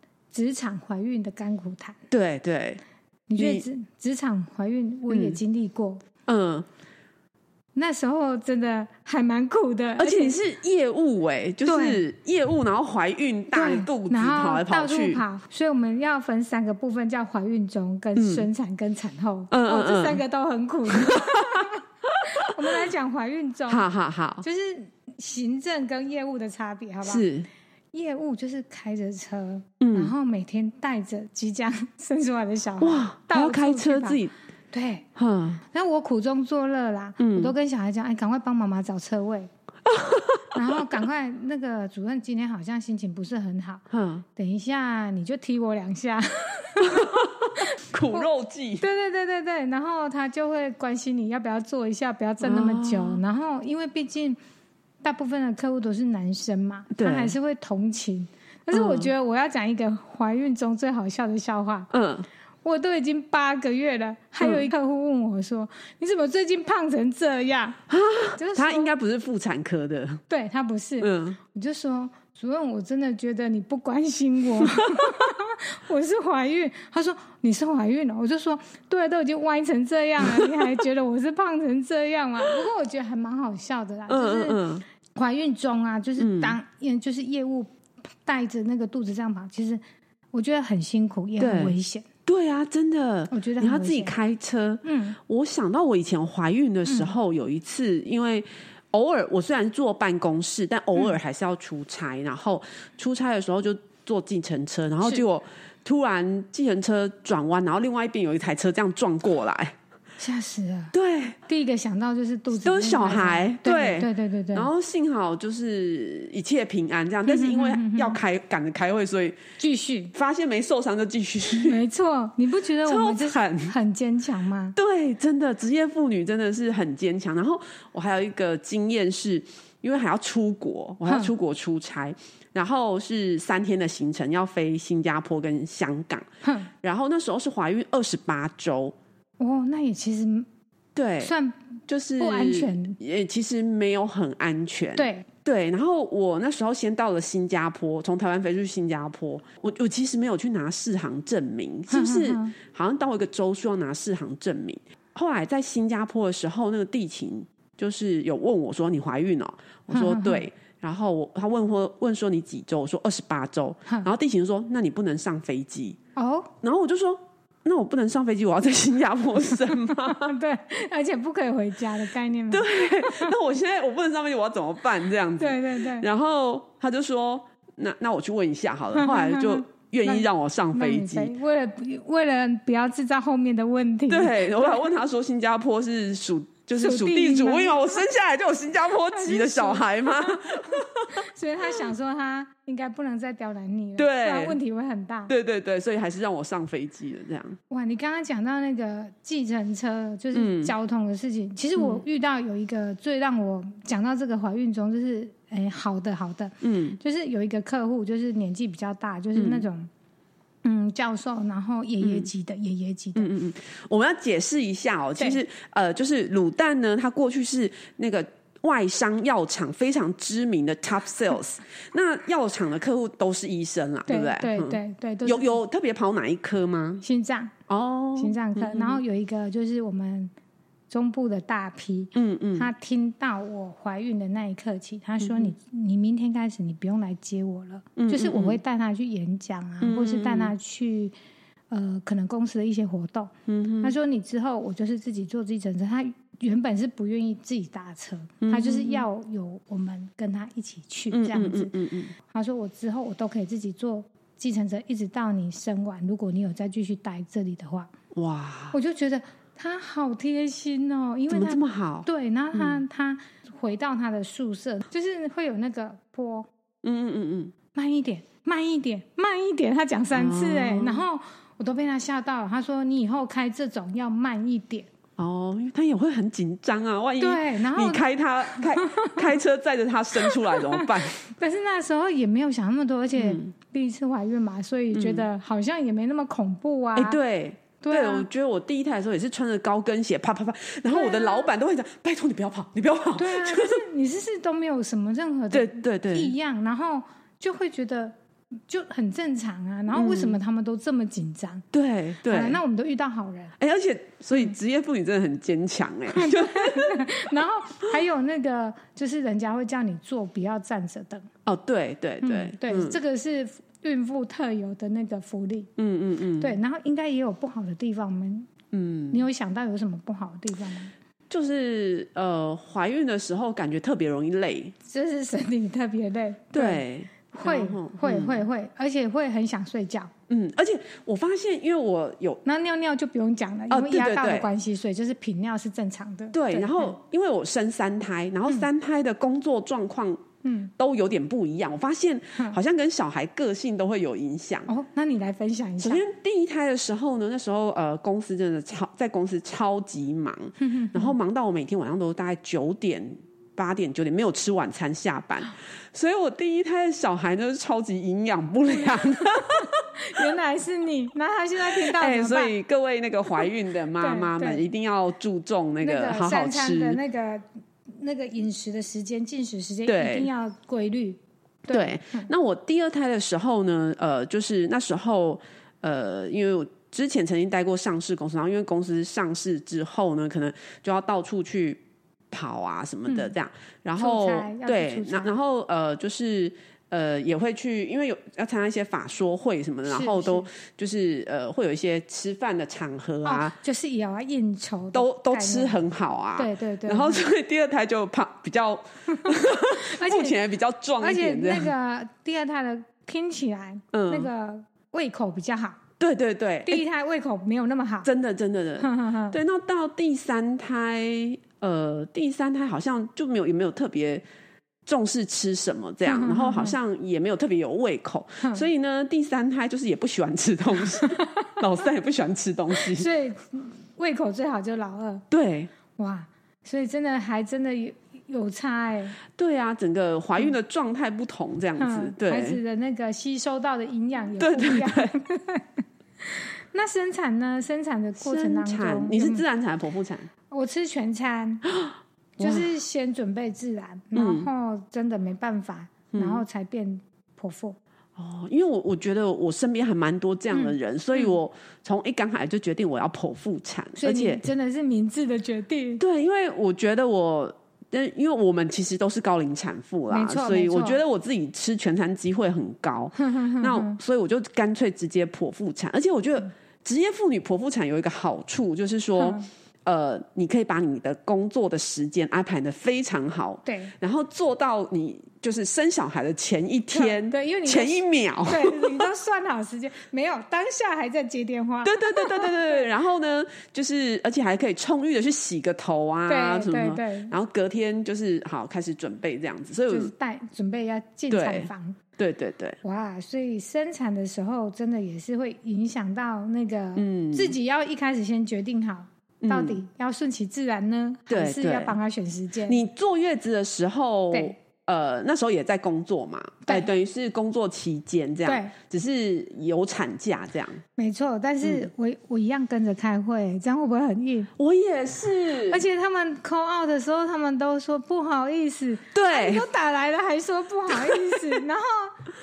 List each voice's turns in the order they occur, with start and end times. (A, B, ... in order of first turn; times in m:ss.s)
0:00.3-0:02.0 A
0:02.1-0:02.8 B
0:03.3-0:06.0 A
0:03.4-0:03.6 B
0:05.1-0:05.4 B
0:06.2-0:06.6 B
0:07.7-0:10.4 A
0:10.0-0:15.2 B
0:11.6-0:12.0 A
0:13.5-0:23.8 A
0:18.2-0:18.4 B
0:19.5-0:20.2 B
0:20.9-0:22.8 B
0:23.7-0:24.4 B
0:24.4-0:27.2 A
0:27.0-0:27.5 B
0:27.9-0:35.0 A
0:29.8-0:30.1 B
0:32.8-0:34.3 B
0:35.2-0:35.6 B
0:35.6-0:39.5 A
0:37.2-0:37.5 B
0:39.9-0:40.8 B
0:40.5-0:43.8 A
0:43.9-0:44.2 B
0:44.4-0:48.3 A
0:46.8-0:48.8 B
0:48.8-0:54.4 A
0:52.4-0:53.2 B
0:55.0-1:01.9 A
0:56.9-0:57.3 B
0:58.7-0:59.1 B
1:01.9-1:02.2 B
1:02.6-1:07.8 A
1:04.4-1:04.7 B
1:07.9-1:10.2 B
1:08.4-1:08.9 A
1:10.3-1:24.6 A
1:11.0-1:11.4 B
1:14.7-1:15.0 B
1:20.2-1:20.8 B
1:24.1-1:24.8 B
1:25.1-1:27.7 A
1:26.2-1:26.6 B
1:28.2-1:29.8 A
1:30.3-1:32.0 A
1:31.4-1:31.7 B
1:32.2-1:49.7 B
1:33.3-1:34.1 A
1:34.8-1:35.2 A
1:36.8-1:37.1 A
1:50.2-1:50.9 A
1:50.9-1:51.4 B
1:51.5-1:54.7 A
1:52.6-1:59.4 B
1:57.2-1:58.2 A
1:59.6-2:00.1 A
2:00.1-2:01.8 B
2:01.6-2:04.8 A
2:02.8-2:03.7 B
2:04.7-2:16.3 B
2:11.0-2:11.3 A
2:16.4-2:16.7 A
2:16.8-2:18.9 B
2:19.4-2:20.5 A
2:20.9-2:21.3 B
2:21.2-2:21.6 A
2:21.9-2:46.0 B
2:22.2-2:23.0 A
2:25.0-2:25.3 A
2:31.9-2:32.5 A
2:39.9-2:40.4 A
2:46.2-2:46.5 A
2:46.6-2:50.4 B
2:49.9-2:53.4 A
2:52.5-3:01.3 B
2:55.4-2:56.1 A
2:58.9-3:04.9 A
3:04.1-3:11.2 B
3:06.8-3:08.0 A
3:09.1-3:15.3 A
3:14.0-3:14.6 B
3:15.3-3:17.6 B
3:17.7-3:29.9 A
3:20.3-3:20.7 B
3:21.8-3:22.0 B
3:26.6-3:27.0 B
3:29.4-3:29.6 B
3:30.6-3:33.3 A
3:32.0-3:32.3 B
3:33.2-3:47.0 B
3:44.1-3:45.6 A
3:47.0-3:47.5 A
3:47.7-3:49.0 B
3:48.2-3:50.3 A
3:50.9-4:01.1 A
3:52.1-3:52.7 B
3:55.2-3:55.5 B
3:58.0-3:58.6 B
3:59.8-4:00.5 B
4:01.7-4:11.7 A
4:03.5-4:03.9 B
4:08.4-4:09.0 B
4:11.1-4:12.1 B
4:12.2-4:17.9 A
4:18.1-4:18.8 B
4:18.7-4:26.5 A
4:21.3-4:22.8 B
4:26.8-4:27.5 B
4:27.7-4:34.9 A
4:30.1-4:31.0 B
4:35.2-4:41.2 B
4:37.2-4:39.4 A
4:40.2-4:47.2 A
4:43.2-4:43.5 B
4:44.9-4:45.2 B
4:47.0-4:53.8 B
4:47.8-4:48.3 A
4:50.9-4:51.5 A
4:53.1-4:58.1 A
4:55.5-4:56.3 B
4:58.7-5:01.6 A
4:59.9-5:00.4 B
5:01.7-5:02.6 B
5:02.2-5:03.5 A
5:03.6-5:07.3 B
5:06.1-5:11.3 A
5:11.4-5:13.0 B
5:12.2-5:15.7 A
5:15.8-5:16.5 B
5:16.4-5:18.5 A
5:18.7-5:19.3 B
5:19.1-5:20.9 A
5:21.3-5:24.7 B
5:24.8-5:30.1 A
5:26.5-5:28.4 B
5:30.3-5:32.4 B
5:32.4-5:36.9 A
5:33.7-5:34.5 B
5:36.3-5:40.2 B
5:40.4-5:40.7 A
5:40.8-5:44.7 B
5:44.7-5:46.0 A
5:45.8-6:00.3 B
5:50.6-5:51.2 A
5:58.7-6:02.5 A
6:01.7-6:07.0 B
6:04.0-6:04.6 A
6:05.8-6:07.4 A
6:08.0-6:12.3 A
6:09.8-6:10.3 B
6:11.7-6:21.8 B
6:22.3-6:33.5 B
6:23.1-6:23.3 A
6:24.0-6:25.3 A
6:29.9-6:30.5 A
6:33.2-6:35.8 A
6:34.9-6:41.7 B
6:36.4-6:37.2 A
6:39.1-6:40.4 A
6:41.0-6:45.8 A
6:43.9-6:44.3 B
6:46.0-6:46.8 B
6:46.6-6:48.1 A
6:48.0-6:54.2 B
6:48.8-6:49.4 A
6:54.8-7:03.1 B
6:56.0-6:56.8 A
7:00.9-7:01.6 A
7:02.7-7:05.2 A
7:05.3-7:05.7 B
7:06.0-7:09.2 A
7:09.4-7:12.6 B
7:11.8-7:19.4 A
7:14.4-7:15.1 B
7:18.2-7:20.3 B
7:20.5-7:21.6 A
7:21.7-7:22.7 B
7:22.4-7:27.8 A
7:24.1-7:24.5 B
7:26.1-7:26.4 B
7:28.2-7:34.4 B
7:30.5-7:31.4 A
7:34.0-7:36.0 A
7:36.0-7:59.1 B
7:40.1-7:41.0 A
7:43.2-7:44.0 A
7:49.2-7:49.4 A
7:53.6-7:53.9 A
7:56.9-8:02.9 A
8:01.8-8:10.1 B
8:06.3-8:07.3 A
8:09.9-8:12.0 A
8:11.3-8:12.8 B
8:12.8-8:22.8 A
8:17.0-8:17.6 B
8:19.4-8:19.8 B
8:21.3-8:22.0 B
8:22.6-8:30.8 B
8:28.4-8:28.7 A
8:31.0-8:34.5 A
8:34.6-8:35.8 B
8:35.7-8:42.1 A
8:39.1-8:39.6 B
8:40.9-8:41.6 B